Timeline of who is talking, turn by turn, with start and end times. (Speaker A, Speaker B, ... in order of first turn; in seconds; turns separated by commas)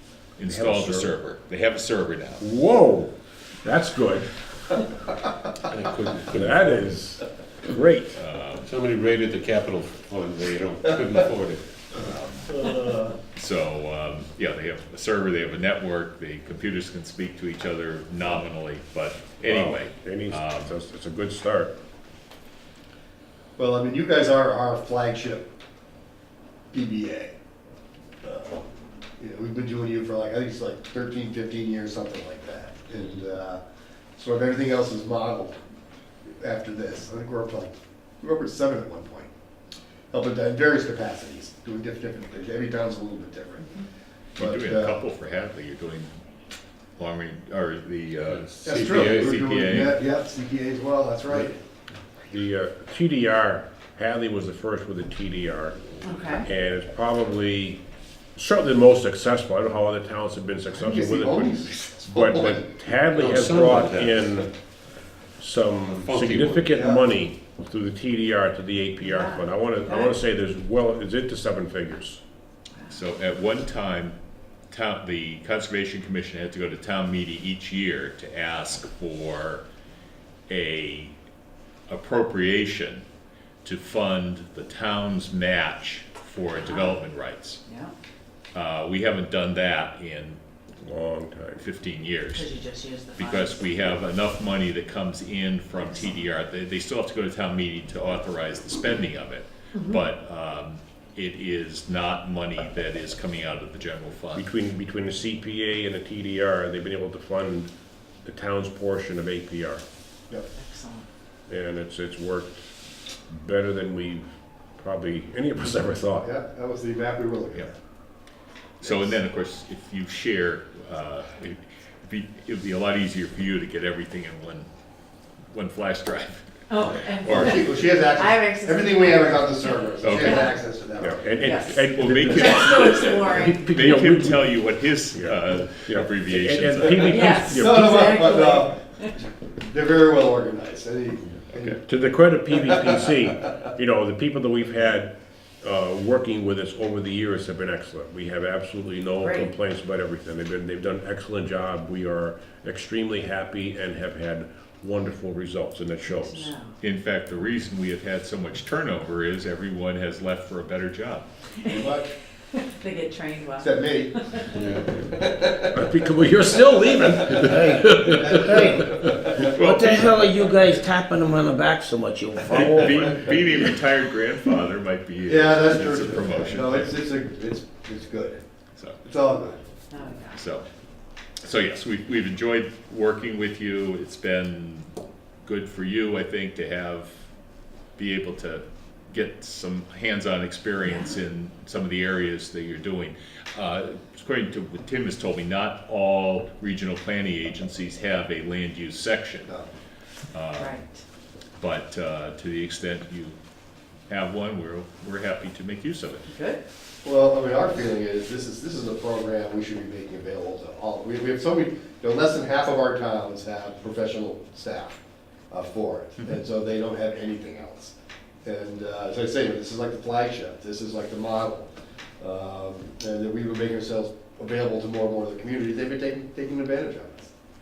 Speaker A: 0.4-2.5, Speaker B: 0.5-1.1, Speaker B: 2.4-4.3, Speaker C: 5.6-7.0, Speaker B: 6.3-8.1, Speaker A: 8.1-8.7, Speaker C: 8.6-12.0, Speaker A: 12.0-12.7, Speaker D: 12.5-13.1, Speaker A: 13.3-20.7, Speaker B: 19.4-21.7, Speaker D: 23.6-25.5, Speaker D: 26.7-27.3, Speaker D: 28.2-28.7, Speaker D: 29.2-33.6, Speaker D: 34.2-35.6, Speaker D: 36.4-39.3, Speaker D: 40.1-43.7, Speaker D: 44.4-45.0, Speaker A: 44.4-46.2, Speaker A: 47.0-50.0, Speaker C: 48.3-49.7, Speaker D: 48.6-51.6, Speaker B: 52.3-57.8, Speaker E: 56.0-56.4, Speaker B: 58.4-64.5, Speaker D: 60.8-62.6, Speaker C: 63.1-64.3, Speaker B: 65.4-72.2, Speaker C: 65.9-66.7, Speaker D: 66.7-67.0, Speaker E: 69.0-70.1, Speaker A: 72.9-74.2, Speaker A: 74.7-79.6, Speaker A: 80.5-81.1, Speaker A: 81.9-83.0, Speaker A: 83.6-87.6, Speaker E: 86.5-87.0, Speaker E: 87.7-87.9, Speaker A: 88.5-90.4, Speaker B: 90.8-91.7, Speaker A: 91.6-92.5, Speaker E: 92.3-93.7, Speaker A: 93.2-104.5, Speaker E: 99.7-100.0, Speaker B: 104.3-107.7, Speaker B: 108.2-109.8, Speaker E: 110.5-111.0, Speaker B: 111.5-112.6, Speaker B: 113.3-116.3, Speaker D: 116.2-117.7, Speaker D: 118.8-119.1, Speaker A: 118.8-124.7, Speaker A: 125.5-126.5, Speaker E: 126.7-130.5, Speaker D: 127.2-131.3, Speaker A: 130.0-130.5, Speaker B: 131.0-134.6, Speaker E: 131.4-134.0, Speaker A: 131.9-137.4, Speaker B: 135.1-138.4, Speaker E: 136.9-139.0, Speaker D: 137.4-141.8, Speaker B: 141.8-156.5, Speaker D: 142.6-143.0, Speaker E: 149.2-149.5, Speaker E: 156.1-156.7, Speaker A: 156.8-161.2, Speaker E: 161.6-161.9, Speaker D: 161.7-162.1, Speaker E: 162.5-163.8, Speaker D: 163.6-164.3, Speaker C: 164.5-165.0, Speaker D: 165.0-166.0, Speaker B: 165.7-169.4, Speaker D: 167.0-169.5, Speaker F: 167.5-168.7, Speaker A: 169.3-170.7, Speaker F: 169.5-173.2, Speaker A: 172.5-176.9, Speaker D: 175.3-178.4, Speaker A: 178.7-179.0, Speaker D: 179.0-179.6, Speaker E: 179.9-180.4, Speaker A: 180.3-180.7, Speaker A: 181.4-184.9, Speaker A: 185.4-187.2, Speaker A: 187.9-199.5, Speaker E: 190.8-191.1, Speaker A: 200.3-200.8, Speaker E: 200.6-201.0, Speaker A: 201.6-203.4, Speaker A: 204.1-206.3, Speaker E: 206.3-206.6, Speaker D: 207.0-215.0, Speaker D: 215.5-227.3